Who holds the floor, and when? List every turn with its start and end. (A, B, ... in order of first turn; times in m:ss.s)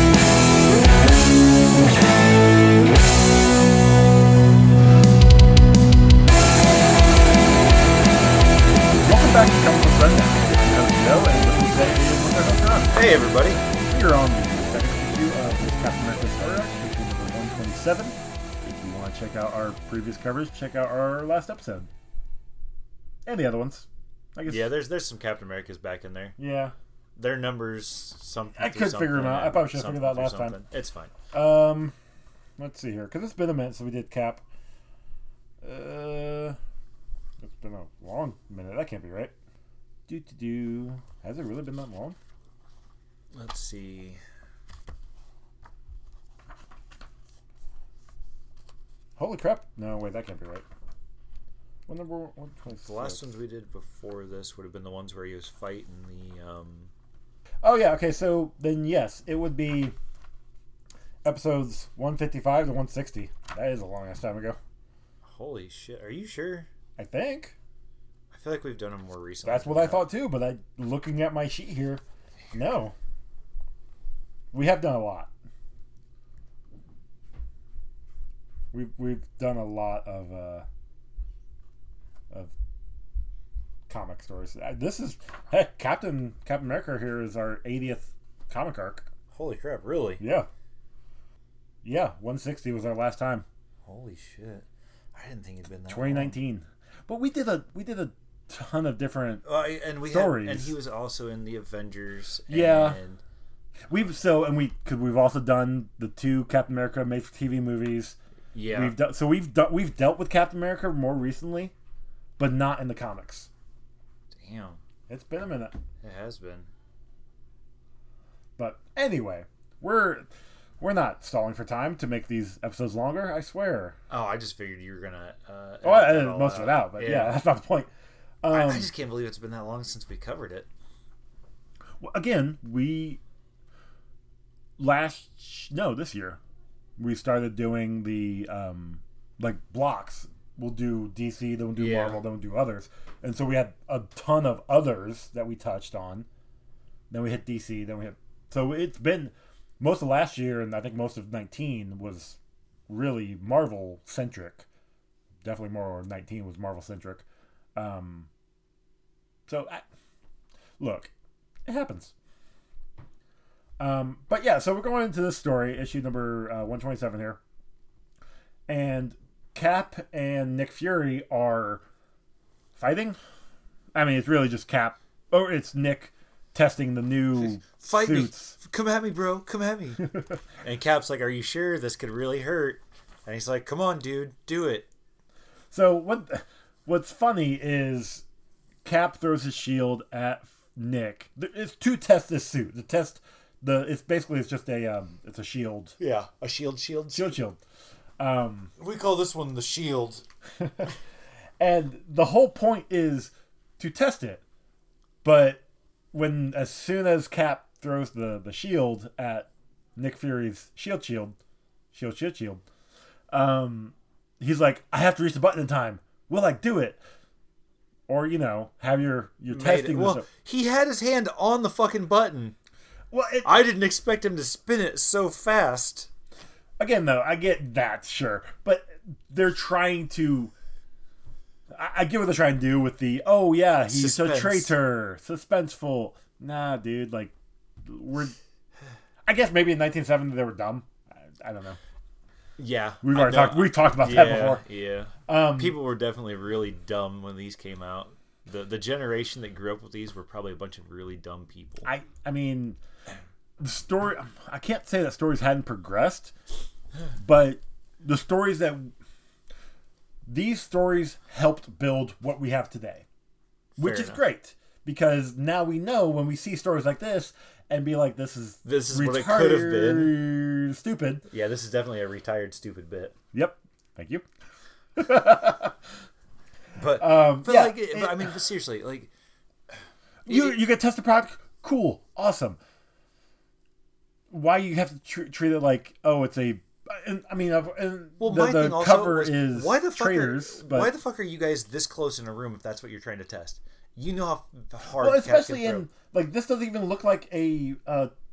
0:09.0-0:12.9 A
0:12.9-0:13.6 B
0:13.8-0:21.9 A
0:23.2-0:24.7 A
0:24.5-0:26.4 B
0:26.4-0:26.7 A
0:27.1-0:31.1 B
0:28.6-0:30.6 A
0:31.3-0:31.9 A
0:32.6-0:34.4 A
0:35.6-0:36.6 A
0:37.4-0:39.3 A
0:40.1-0:42.2 A
0:43.3-0:44.2 B
0:49.2-0:50.6 A
0:51.9-0:53.2 A
0:52.8-0:56.9 B
0:57.6-0:59.9 A
1:01.2-1:04.6 A
1:05.2-1:06.7 B
1:07.0-1:07.6 A
1:08.3-1:10.1 B
1:09.4-1:12.0 A
1:12.5-1:12.9 A
1:14.5-1:15.3 A
1:18.7-1:20.6 A
1:23.9-1:29.0 A
1:29.3-1:30.2 B
1:30.2-1:30.5 A
1:31.8-1:33.4 A
1:33.8-1:36.4 B
1:35.9-1:39.4 A
1:39.4-1:43.2 B
1:40.0-1:40.7 A
1:42.5-1:43.0 A
1:43.9-1:48.2 A
1:48.5-1:49.0 B
1:48.7-1:51.7 A
1:52.4-1:53.5 A
1:54.3-1:54.8 B
1:55.1-1:55.7 A
1:56.0-1:56.7 B
1:58.6-2:00.3 A
2:00.8-2:03.9 A
2:04.1-2:07.4 B
2:05.8-2:07.9 A
2:08.4-2:08.9 A
2:08.5-2:10.7 B
2:12.0-2:13.2 A
2:14.8-2:16.4 A
2:17.0-2:26.2 A
2:21.8-2:22.2 B
2:27.1-2:34.6 A
2:35.4-2:38.3 A
2:39.5-2:39.8 A
2:40.8-2:41.1 A
2:41.7-2:42.1 A
2:43.8-2:47.4 A
2:48.7-2:51.8 A
2:52.8-2:53.2 A
2:53.9-2:58.6 A
2:57.4-3:04.9 B
3:05.7-3:08.2 A
3:08.8-3:16.0 A
3:16.0-3:17.3 B
3:17.1-3:17.6 A
3:18.2-3:18.7 A
3:18.8-3:20.2 B
3:20.6-3:20.9 A
3:21.6-3:24.4 A
3:25.2-3:25.6 A
3:26.1-3:31.4 A
3:31.9-3:32.6 A
3:33.3-3:37.0 A
3:38.1-3:40.2 A
3:39.5-3:42.6 B
3:43.1-3:43.6 A
3:43.4-3:46.1 B
3:46.8-3:50.5 A
3:51.7-3:58.3 A
3:53.9-3:54.7 B
3:59.2-4:01.8 A
4:02.6-4:11.9 B
4:03.0-4:04.6 A
4:05.3-4:05.8 A
4:11.8-4:12.8 A
4:13.6-4:16.3 A
4:17.1-4:18.9 A
4:20.2-4:23.0 A
4:23.8-4:31.2 A
4:23.8-4:24.2 B
4:28.6-4:30.2 B
4:31.3-4:33.1 B
4:33.3-4:34.2 A
4:35.0-4:35.7 A
4:36.8-4:39.1 B
4:37.0-4:38.3 A
4:40.2-4:42.6 A
4:40.3-4:40.5 B
4:44.3-4:50.9 A
4:48.2-4:55.9 B
4:54.9-4:58.1 A